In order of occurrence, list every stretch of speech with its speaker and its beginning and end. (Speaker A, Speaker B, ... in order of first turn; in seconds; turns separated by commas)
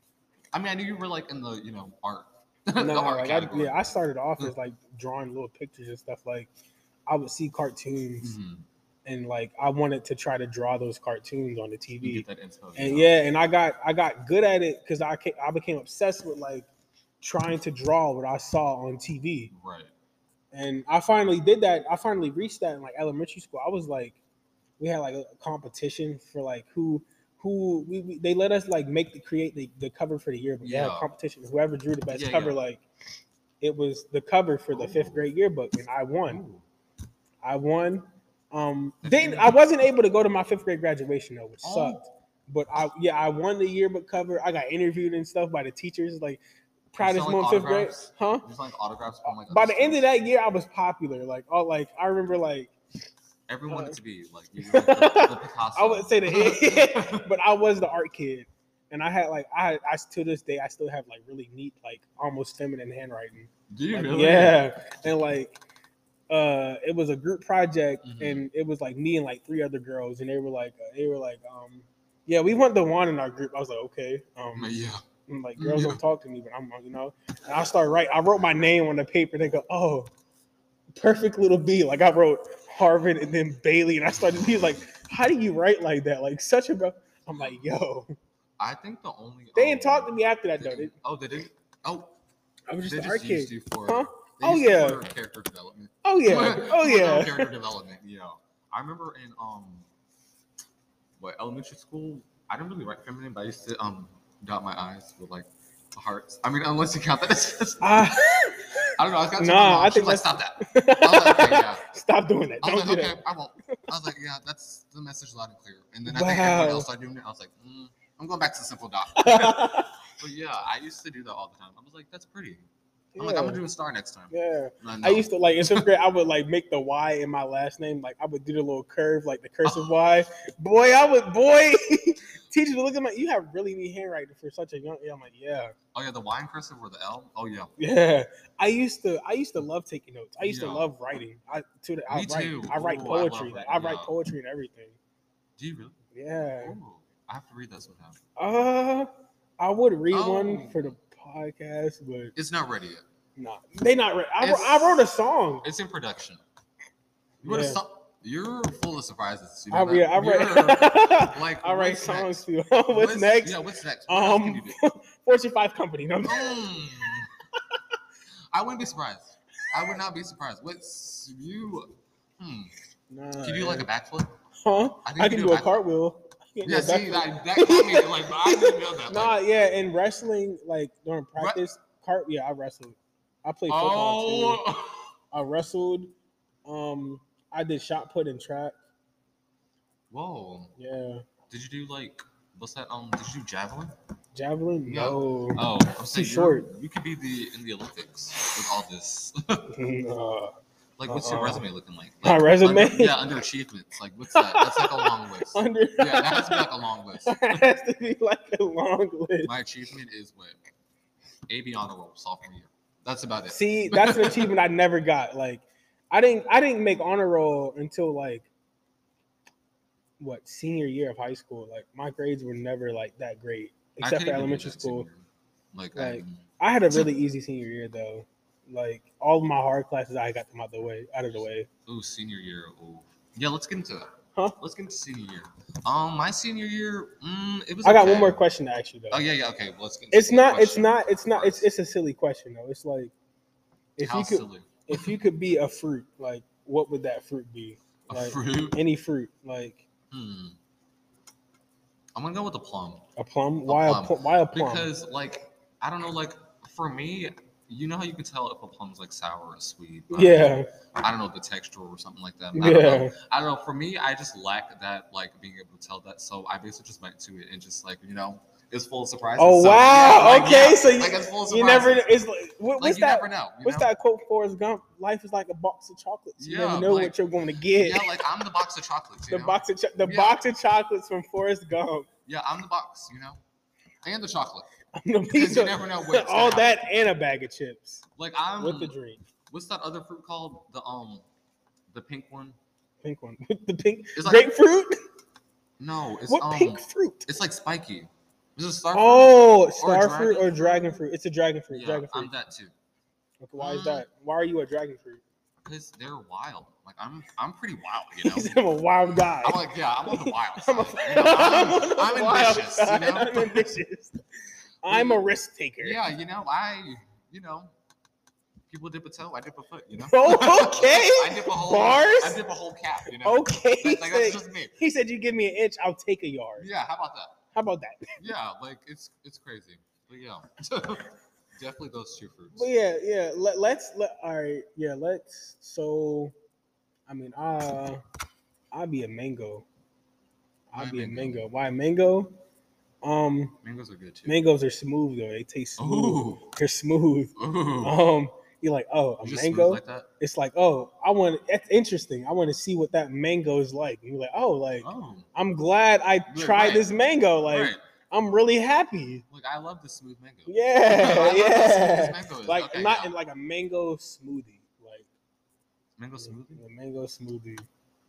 Speaker A: 0.5-4.5, Speaker B: 2.8-6.5, Speaker B: 7.1-8.3, Speaker A: 8.2-8.7, Speaker B: 9.1-12.2, Speaker A: 12.0-13.2, Speaker B: 12.8-16.7, Speaker B: 17.2-19.5, Speaker A: 19.5-19.9, Speaker B: 20.5-24.2, Speaker B: 24.8-32.8, Speaker A: 30.6-31.1, Speaker A: 32.1-32.6, Speaker B: 33.6-36.4, Speaker A: 34.7-35.3, Speaker A: 36.3-36.6, Speaker B: 37.4-46.4, Speaker A: 39.0-39.6, Speaker A: 41.6-42.0, Speaker B: 46.9-48.4, Speaker A: 47.0-50.0, Speaker B: 49.3-52.7, Speaker A: 53.5-57.3, Speaker B: 53.7-54.0, Speaker B: 54.6-65.6, Speaker A: 63.7-64.6, Speaker B: 66.3-74.7, Speaker A: 68.0-68.5, Speaker A: 74.5-75.0, Speaker B: 75.3-80.1, Speaker A: 75.6-76.0, Speaker B: 80.9-88.1, Speaker A: 88.6-92.1, Speaker B: 89.5-90.9, Speaker B: 92.7-95.0, Speaker A: 92.8-99.9, Speaker B: 96.0-97.5, Speaker A: 101.2-108.0, Speaker B: 107.8-113.2, Speaker A: 108.9-111.8, Speaker A: 112.6-122.7, Speaker B: 116.0-116.9, Speaker B: 119.2-119.9, Speaker B: 123.1-123.6, Speaker A: 123.2-125.9, Speaker B: 124.3-135.7, Speaker A: 129.6-130.0, Speaker A: 135.9-137.7, Speaker B: 137.8-144.9, Speaker A: 140.4-140.9, Speaker A: 142.1-144.1, Speaker A: 145.6-148.2, Speaker B: 146.1-146.8, Speaker B: 148.4-152.3, Speaker A: 150.1-150.9, Speaker A: 152.3-153.0, Speaker B: 153.4-155.6, Speaker A: 154.4-155.1, Speaker A: 155.6-156.4, Speaker A: 157.4-164.8, Speaker B: 157.4-157.8, Speaker B: 159.7-166.6, Speaker A: 166.2-167.3, Speaker A: 168.5-172.7, Speaker B: 173.1-173.9, Speaker A: 173.4-174.3, Speaker B: 174.6-184.6, Speaker A: 175.0-175.8, Speaker A: 176.6-179.4, Speaker A: 183.7-185.1, Speaker B: 185.3-186.1, Speaker B: 186.7-188.8, Speaker A: 190.1-190.7, Speaker B: 190.8-191.2, Speaker A: 191.5-193.9, Speaker B: 194.3-196.7, Speaker A: 194.8-199.7, Speaker B: 199.7-200.5, Speaker A: 201.0-207.6, Speaker B: 201.1-201.7, Speaker B: 202.2-203.2, Speaker B: 204.3-206.7, Speaker B: 207.2-209.5, Speaker A: 209.4-210.6, Speaker A: 211.5-214.5, Speaker B: 213.5-218.5, Speaker B: 220.2-225.1, Speaker A: 224.0-227.1, Speaker B: 225.9-231.7, Speaker A: 231.9-238.4, Speaker B: 237.8-239.2, Speaker A: 239.1-241.7, Speaker B: 240.1-243.1, Speaker B: 244.0-249.8, Speaker A: 244.0-245.1, Speaker A: 248.1-248.8, Speaker A: 250.1-250.6, Speaker A: 252.1-253.0, Speaker B: 253.2-254.9, Speaker A: 253.7-272.1, Speaker B: 260.1-260.7, Speaker B: 262.5-263.1, Speaker B: 269.4-278.2, Speaker A: 272.8-273.9, Speaker A: 276.4-277.1, Speaker A: 277.7-280.4, Speaker B: 279.3-282.1, Speaker A: 282.2-283.4, Speaker A: 284.0-284.7, Speaker B: 284.9-288.0, Speaker A: 285.3-287.0, Speaker A: 288.2-288.9, Speaker B: 288.6-289.2, Speaker A: 289.5-291.2, Speaker A: 291.9-292.6, Speaker B: 293.0-295.0, Speaker A: 294.1-294.5, Speaker A: 295.8-301.0, Speaker B: 296.3-297.3, Speaker B: 298.9-302.3, Speaker A: 301.7-302.7, Speaker B: 303.4-305.2, Speaker A: 303.6-304.0, Speaker A: 305.6-308.6, Speaker B: 308.2-314.2, Speaker A: 309.4-313.7, Speaker B: 314.8-316.0, Speaker A: 314.9-315.2, Speaker A: 315.8-317.7, Speaker A: 318.7-324.7, Speaker B: 320.0-322.4, Speaker B: 323.1-326.7, Speaker A: 326.6-327.4, Speaker B: 327.5-328.2, Speaker A: 328.2-332.7, Speaker B: 332.5-336.3, Speaker B: 337.1-338.0, Speaker B: 338.7-339.6, Speaker B: 340.7-342.3, Speaker A: 340.7-341.5, Speaker B: 343.0-343.6, Speaker A: 343.6-344.4, Speaker B: 344.2-359.2, Speaker A: 345.8-346.5, Speaker A: 347.4-348.0, Speaker A: 349.2-350.1, Speaker A: 354.8-355.3, Speaker A: 356.3-356.9, Speaker A: 357.5-357.8, Speaker A: 359.3-363.1, Speaker B: 360.5-365.1, Speaker A: 366.0-366.6, Speaker B: 366.2-367.6